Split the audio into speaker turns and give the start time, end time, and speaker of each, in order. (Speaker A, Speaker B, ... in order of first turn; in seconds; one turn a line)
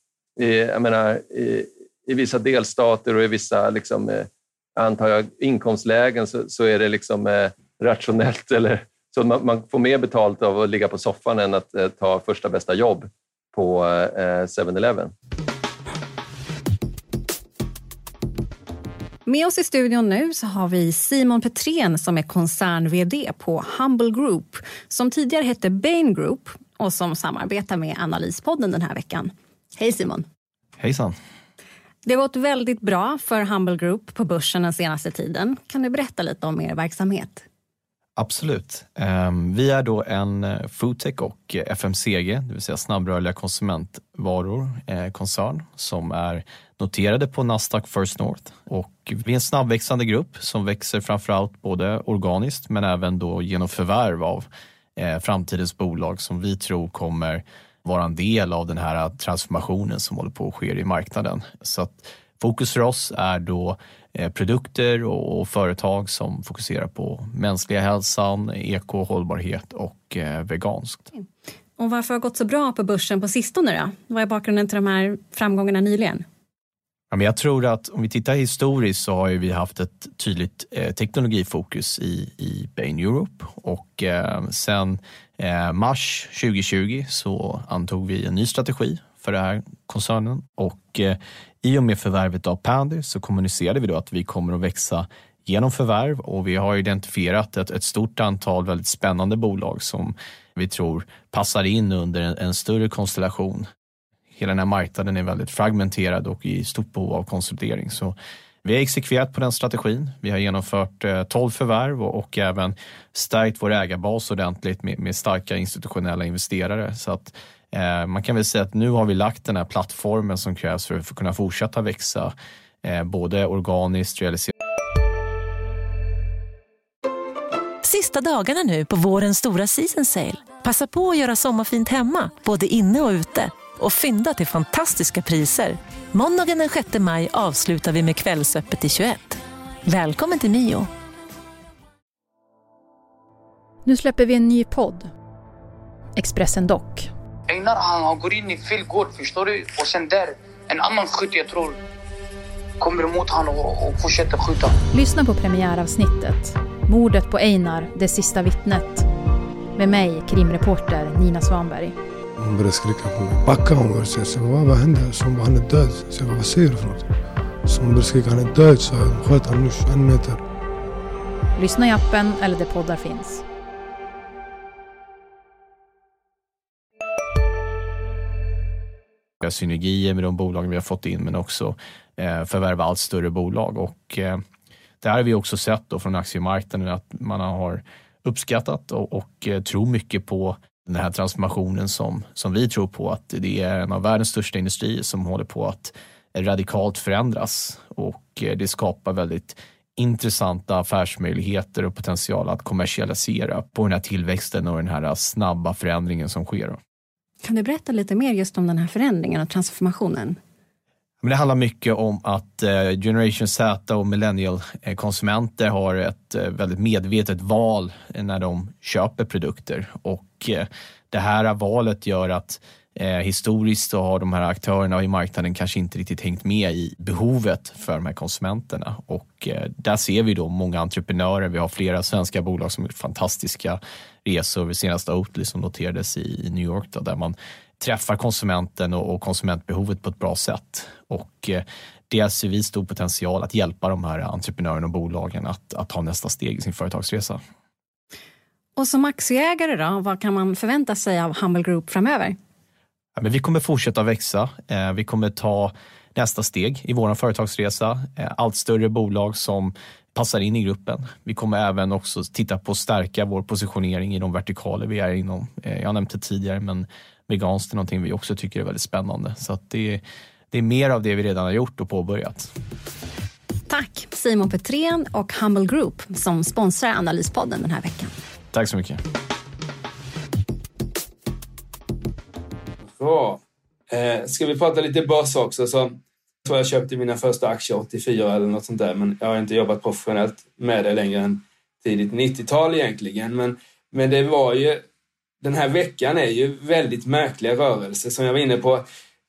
Speaker A: 0.4-15.1
Speaker B: 19.2-30.3
Speaker C: 30.8-31.1
Speaker B: 32.0-37.4
Speaker C: 38.1-71.1
Speaker B: 71.8-76.2
Speaker C: 77.1-103.7
Speaker C: 104.3-124.5
Speaker D: 127.8-140.9
Speaker E: 143.8-145.1
Speaker E: 146.2-147.1
Speaker F: 147.5-151.8
Speaker F: 152.8-154.7
Speaker E: 154.9-159.1
Speaker E: 159.8-161.9
Speaker G: 162.4-167.1
Speaker G: 167.6-170.4
Speaker E: 171.6-173.4
Speaker C: 179.4-184.4
Speaker C: 185.0-206.8
Speaker B: 207.4-210.4
Speaker C: 211.2-247.4
Speaker B: 248.8-252.3
Speaker C: 253.2-272.5
Speaker B: 273.7-278.1
Speaker C: 278.5-279.0
Speaker H: 282.9-294.8
Speaker H: 295.4-298.8